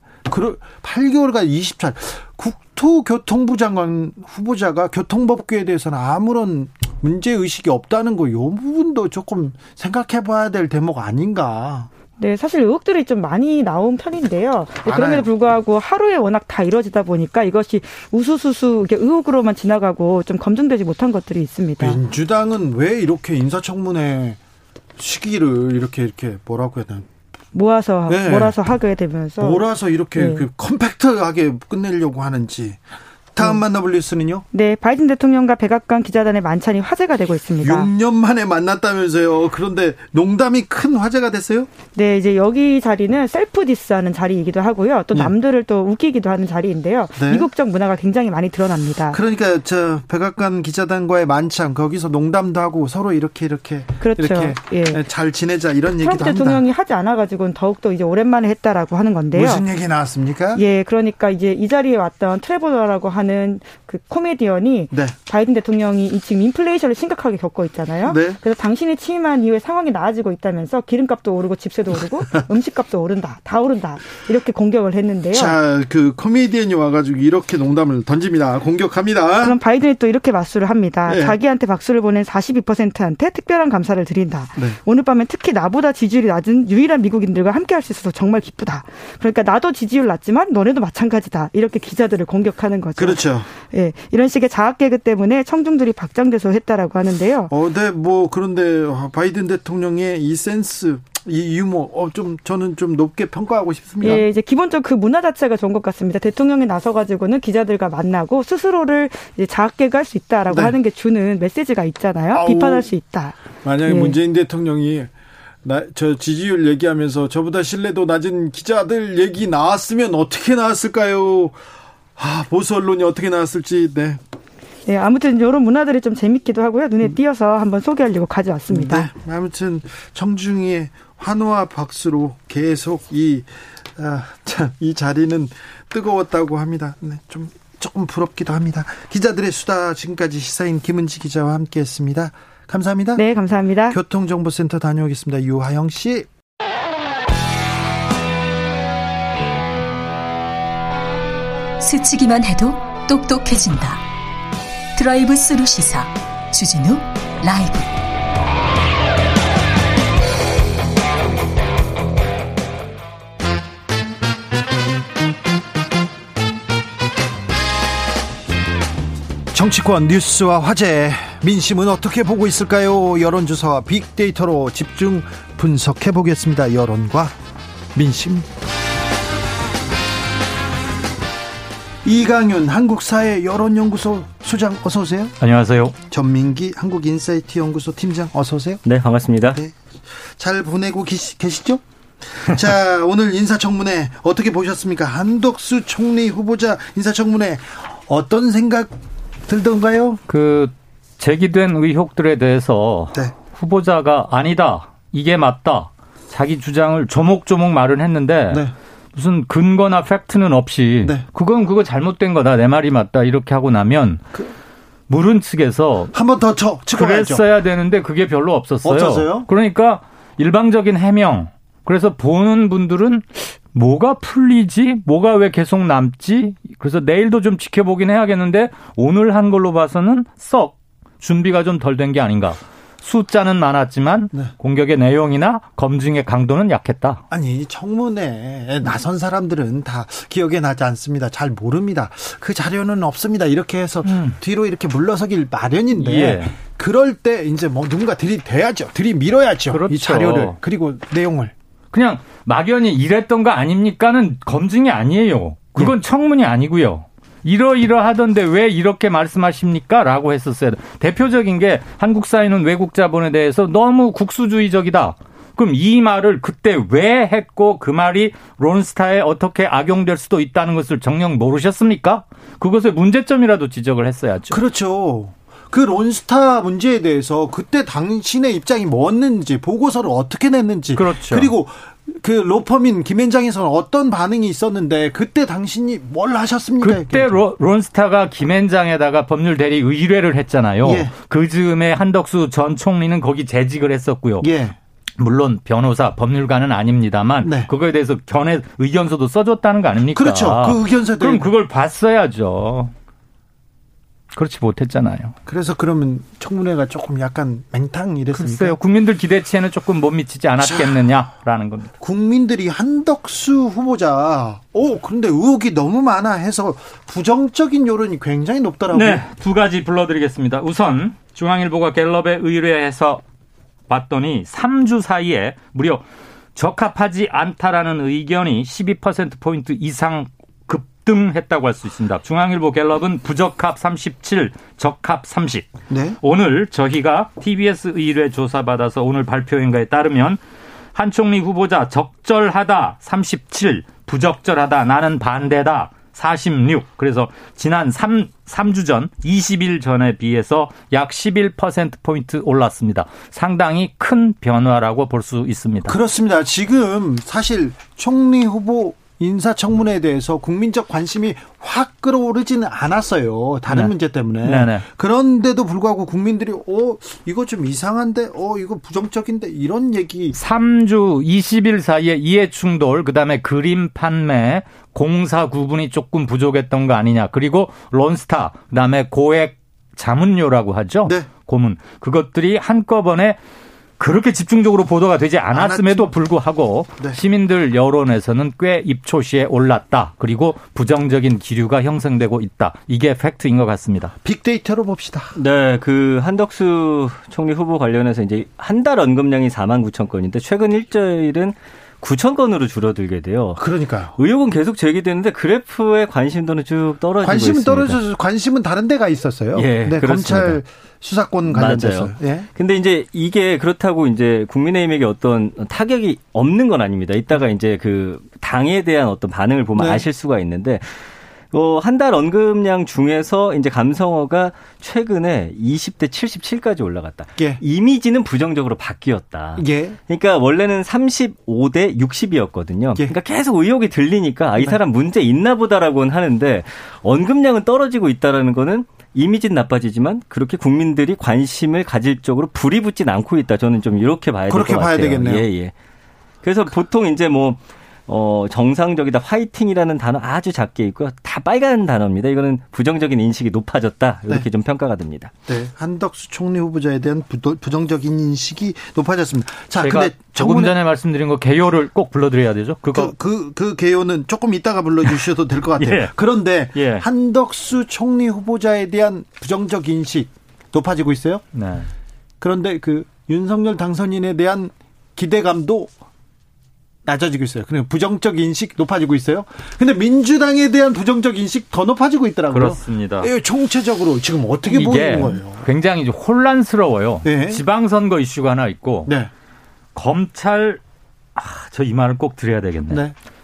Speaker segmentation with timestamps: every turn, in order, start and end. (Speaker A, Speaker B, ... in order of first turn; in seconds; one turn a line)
Speaker A: 0.3-11.9
Speaker B: 12.2-22.0
Speaker A: 14.9-15.2
Speaker A: 21.8-24.4
Speaker A: 25.0-27.1
Speaker B: 27.5-29.6
Speaker A: 28.1-28.6
Speaker A: 29.4-32.8
Speaker B: 30.2-30.5
Speaker A: 33.3-34.5
Speaker B: 34.5-37.9
Speaker A: 37.6-41.7
Speaker B: 42.0-49.2
Speaker A: 47.2-47.5
Speaker A: 49.1-56.6
Speaker B: 54.0-55.0
Speaker B: 56.0-59.6
Speaker A: 59.3-60.6
Speaker B: 60.5-75.6
Speaker A: 68.1-68.4
Speaker A: 75.3-79.6
Speaker B: 79.4-97.5
Speaker A: 81.1-81.3
Speaker A: 93.0-93.5
Speaker A: 97.5-104.2
Speaker B: 104.0-114.1
Speaker A: 110.5-110.8
Speaker A: 112.3-112.9
Speaker A: 113.6-115.1
Speaker A: 115.6-121.6
Speaker A: 122.2-124.2
Speaker B: 124.9-129.1
Speaker A: 128.7-143.2
Speaker B: 143.2-144.0
Speaker A: 143.9-146.3
Speaker C: 151.8-154.0
Speaker C: 155.0-157.9
Speaker A: 169.5-177.3
Speaker A: 177.9-178.5
Speaker A: 182.0-185.3
Speaker D: 185.4-186.0
Speaker A: 186.1-188.8
Speaker E: 188.8-189.6
Speaker A: 189.5-200.2
Speaker D: 200.3-214.2
Speaker D: 215.1-216.1
Speaker A: 216.1-217.4
Speaker D: 216.9-237.2
Speaker A: 218.8-219.5
Speaker A: 237.3-251.5
Speaker D: 244.1-244.4
Speaker D: 246.0-246.6
Speaker D: 249.7-250.6
Speaker D: 251.9-274.6
Speaker A: 274.5-287.4
Speaker D: 280.9-281.5
Speaker D: 286.8-294.5
Speaker A: 290.8-291.1
Speaker A: 294.4-294.8
Speaker D: 295.2-302.9
Speaker A: 297.4-297.7
Speaker A: 300.1-301.5
Speaker D: 304.3-305.4
Speaker A: 305.5-308.8
Speaker D: 308.3-311.9
Speaker A: 310.6-311.0
Speaker A: 312.0-319.2
Speaker D: 318.9-323.2
Speaker D: 323.9-326.0
Speaker D: 326.6-335.7
Speaker A: 335.9-336.2
Speaker D: 336.2-340.4
Speaker D: 340.9-355.9
Speaker A: 355.9-370.4
Speaker D: 364.4-364.8
Speaker D: 370.4-383.4
Speaker D: 384.0-394.1
Speaker A: 385.5-386.1
Speaker A: 394.2-395.4
Speaker E: 395.4-403.6
Speaker A: 403.6-404.1
Speaker E: 404.2-408.0
Speaker A: 407.2-412.5
Speaker E: 409.6-410.6
Speaker E: 411.5-421.0
Speaker A: 419.8-420.0
Speaker E: 421.5-445.7
Speaker A: 429.6-430.0
Speaker A: 444.5-445.5
Speaker E: 446.4-455.3
Speaker A: 455.5-460.8
Speaker D: 459.8-463.1
Speaker A: 462.9-471.4
Speaker D: 465.8-466.1
Speaker D: 466.8-467.1
Speaker D: 471.5-471.9
Speaker A: 472.4-475.9
Speaker A: 477.1-485.6
Speaker D: 482.5-483.3
Speaker D: 484.7-489.1
Speaker A: 487.2-487.6
Speaker D: 489.9-490.8
Speaker D: 491.4-493.1
Speaker A: 492.9-493.1